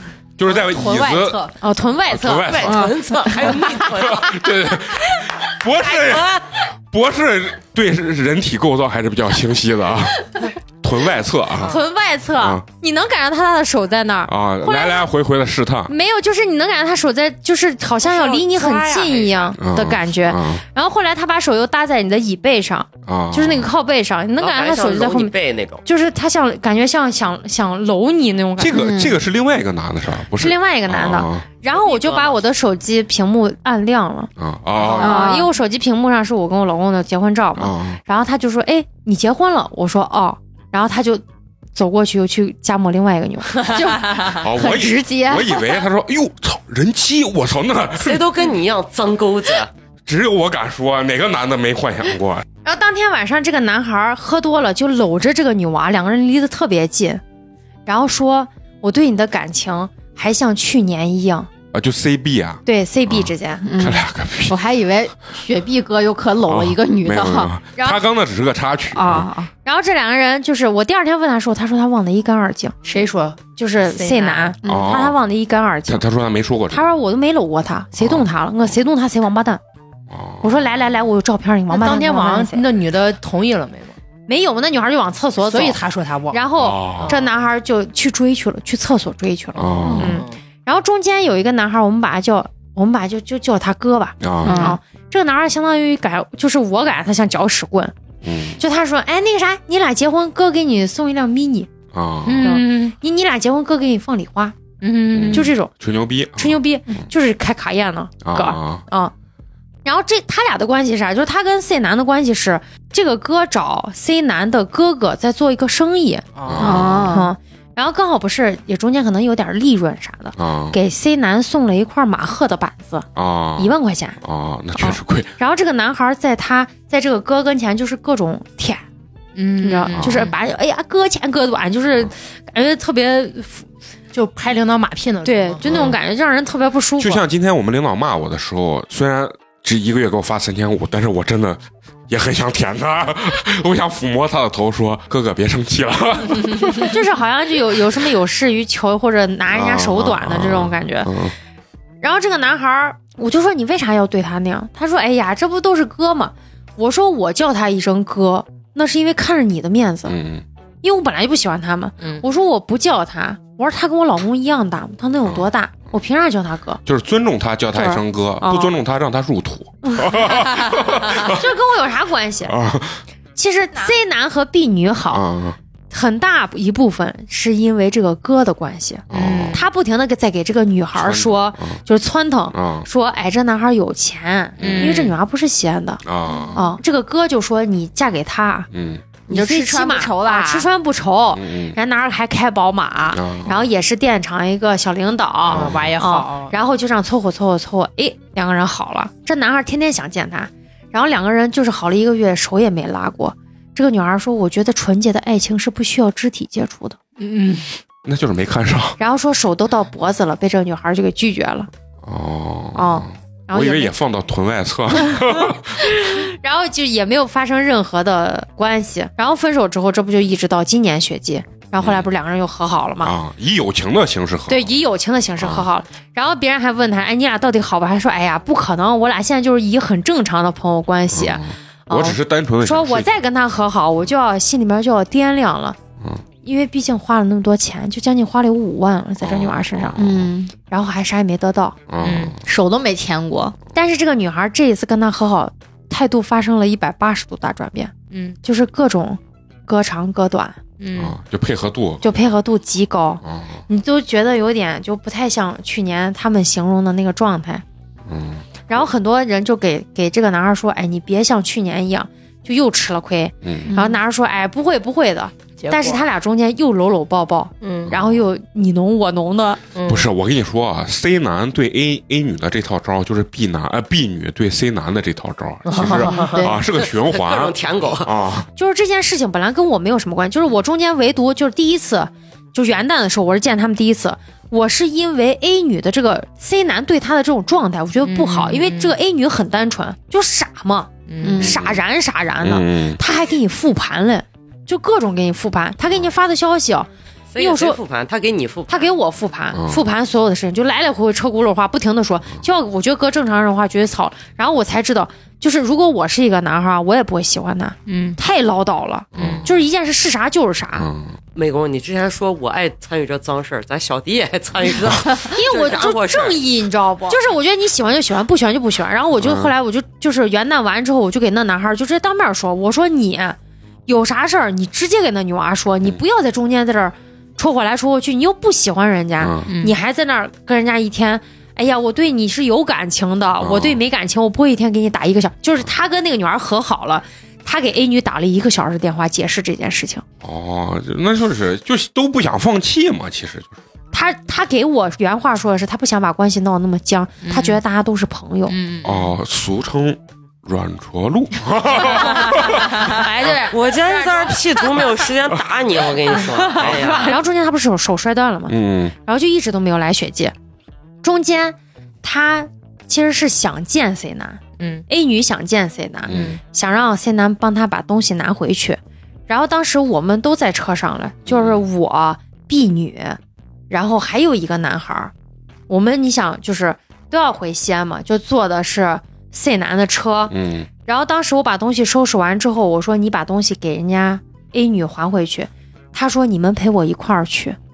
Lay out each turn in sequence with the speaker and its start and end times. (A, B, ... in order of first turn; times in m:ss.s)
0:00.4-0:01.5 A
0:00.6-0:01.5 B
0:01.6-0:02.8 C
0:02.1-0:03.0 A
0:02.5-0:04.4 D
0:03.7-0:11.8 A
0:06.0-0:06.4 D
0:11.6-0:15.0 C
0:12.4-0:12.6 A
0:14.3-0:15.9 A
0:15.9-0:25.3 C
0:18.0-0:19.6 D
0:19.6-0:20.6 A
0:23.0-0:23.7 A
0:24.4-0:25.8 D
0:25.8-0:28.8 C
0:28.6-0:31.4 A
0:28.7-0:29.2 B
0:30.4-0:41.2 C
0:31.7-0:32.4 D
0:34.4-0:35.3 A
0:35.0-0:35.5 B
0:37.6-0:38.0 A
0:41.7-0:44.4 C
0:43.6-0:45.7 B
0:44.1-0:48.3 A
0:48.0-0:49.7 D
0:50.1-0:52.4 A
0:52.6-0:57.2 C
0:57.8-1:01.5 C
1:01.7-1:04.6 A
1:02.6-1:03.7 C
1:03.6-1:07.5 B
1:06.4-1:09.3 A
1:08.9-1:09.5 B
1:09.6-1:16.0 C
1:12.8-1:14.6 E
1:14.6-1:15.2 A
1:14.6-1:14.9 B
1:15.9-1:16.9 A
1:16.7-1:19.6 C
1:18.0-1:18.3 A
1:20.1-1:20.6 A
1:20.4-1:22.6 C
1:21.7-1:24.0 E
1:24.3-1:37.9 C
1:25.4-1:26.4 E
1:26.6-1:27.2 A
1:29.6-1:30.2 A
1:29.9-1:30.4 E
1:34.2-1:34.7 A
1:34.4-1:34.8 B
1:38.2-1:38.6 A
1:38.6-1:41.7 C
1:41.9-1:42.6 A
1:42.2-1:44.7 C
1:42.4-1:42.6 B
1:44.8-1:45.5 B
1:45.1-1:46.6 A
1:45.3-1:45.7 C
1:46.4-1:49.1 C
1:48.2-1:48.8 A
1:49.8-2:04.2 C
1:56.4-1:57.1 E
1:56.4-1:57.1 A
1:56.6-1:57.3 B
2:00.4-2:00.8 A
2:03.1-2:05.3 A
2:04.8-2:08.8 C
2:09.4-2:10.3 E
2:09.6-2:13.7 C
2:09.9-2:10.3 A
2:14.1-2:15.9 E
2:15.2-2:17.2 C
2:15.6-2:16.0 A
2:17.0-2:27.0 A
2:26.8-2:31.1 C
2:29.5-2:31.3 A
2:32.0-2:40.2 C
2:40.1-2:40.4 A
2:40.8-2:46.8 C
2:45.2-2:45.5 A
2:46.8-2:51.5 A
2:47.7-2:48.7 C
2:49.9-2:52.6 C
2:52.5-2:53.0 A
2:53.4-2:55.2 C
2:55.1-2:55.6 A
2:55.9-3:06.0 C
2:59.1-2:59.6 A
2:59.1-2:59.6 E
3:00.9-3:01.8 A
3:02.5-3:02.9 A
3:04.6-3:05.1 A
3:04.6-3:05.0 B
3:06.0-3:06.6 A
3:06.3-3:06.6 B
3:06.5-3:08.7 C
3:08.7-3:09.0 A
3:09.3-3:10.7 B
3:09.3-3:27.0 C
3:11.3-3:11.8 A
3:13.1-3:13.6 A
3:15.5-3:15.9 A
3:15.5-3:16.5 E
3:27.2-3:27.7 E
3:28.0-3:29.0 A
3:29.0-3:31.7 C
3:32.0-3:35.8 A
3:32.7-3:33.9 C
3:35.8-3:43.1 C
3:41.8-3:42.1 A
3:43.0-3:44.7 A
3:44.5-3:55.8 C
3:45.4-3:45.7 A
3:51.1-3:53.1 A
3:56.4-4:00.1 C
3:59.2-4:00.3 A
4:00.0-4:00.5 B
4:00.6-4:01.8 C
4:01.9-4:02.4 A
4:02.0-4:03.5 B
4:03.7-4:10.6 C
4:10.9-4:12.0 A
4:12.0-4:17.6 C
4:13.2-4:13.6 A
4:18.1-4:18.4 A
4:18.7-4:29.6 C
4:23.4-4:23.7 A
4:23.6-4:24.0 B
4:25.6-4:26.0 E
4:27.6-4:27.9 B
4:27.8-4:28.2 A
4:29.8-4:38.5 A
4:35.7-4:36.4 E
4:35.8-4:36.5 B
4:36.9-4:38.1 D
4:38.6-4:57.8 C
4:51.2-4:51.6 B
4:51.4-4:51.8 A
4:52.4-4:53.0 A
4:57.3-4:58.9 D
4:58.7-5:10.9 C
4:59.5-4:59.8 A
5:09.1-5:09.6 A
5:10.8-5:11.2 A
5:11.3-5:16.6 D
5:15.3-5:40.0 C
5:16.9-5:17.2 B
5:19.2-5:19.5 A
5:29.2-5:29.5 A
5:33.4-5:33.8 A
5:40.2-5:43.6 A
5:43.9-5:48.6 C
5:47.3-5:47.5 E
5:48.6-5:48.9 E
5:48.8-5:53.0 A
5:51.8-5:54.6 C
5:53.4-5:57.2 D
5:56.5-5:57.0 A
5:56.6-6:00.3 C
5:58.5-5:58.9 A
6:01.0-6:13.2 C
6:06.1-6:06.4 A
6:11.2-6:11.6 A
6:13.7-6:15.1 C
6:15.7-6:20.3 C
6:20.3-6:20.7 A
6:20.8-6:27.6 C